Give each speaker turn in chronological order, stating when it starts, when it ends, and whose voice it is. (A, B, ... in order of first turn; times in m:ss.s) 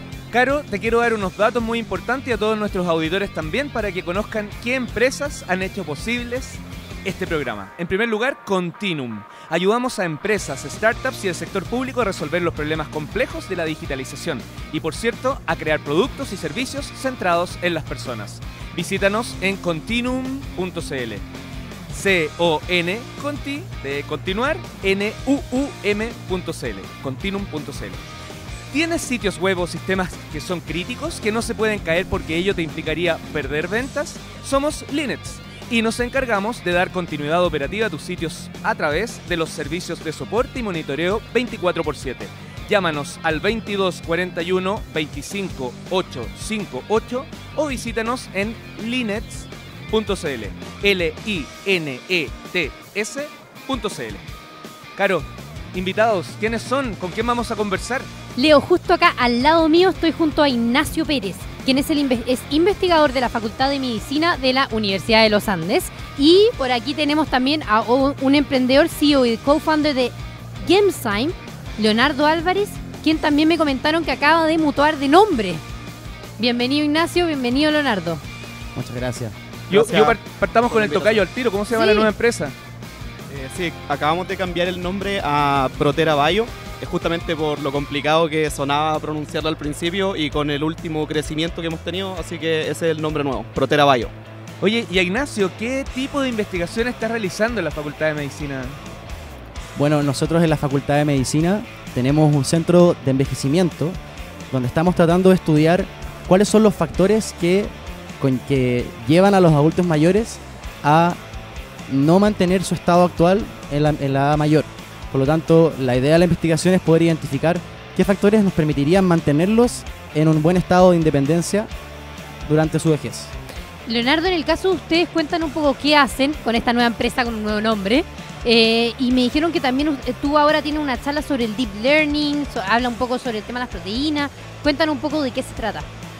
0:00.3-0:21.2 A
0:21.9-0:28.0 A
0:28.7-0:54.2 A
0:55.0-0:58.1 A
0:58.4-1:15.6 B
1:16.4-1:18.2 B
1:18.7-1:19.3 C
1:19.7-1:20.2 D
1:19.7-1:22.5 A
1:20.7-1:21.1 D
1:21.7-1:22.1 B
1:23.3-1:34.1 D
1:34.6-1:38.8 A
1:39.8-1:44.0 C
1:44.5-1:51.2 C
1:51.9-2:01.7 C
2:02.4-2:03.3 C
2:03.9-2:15.9 B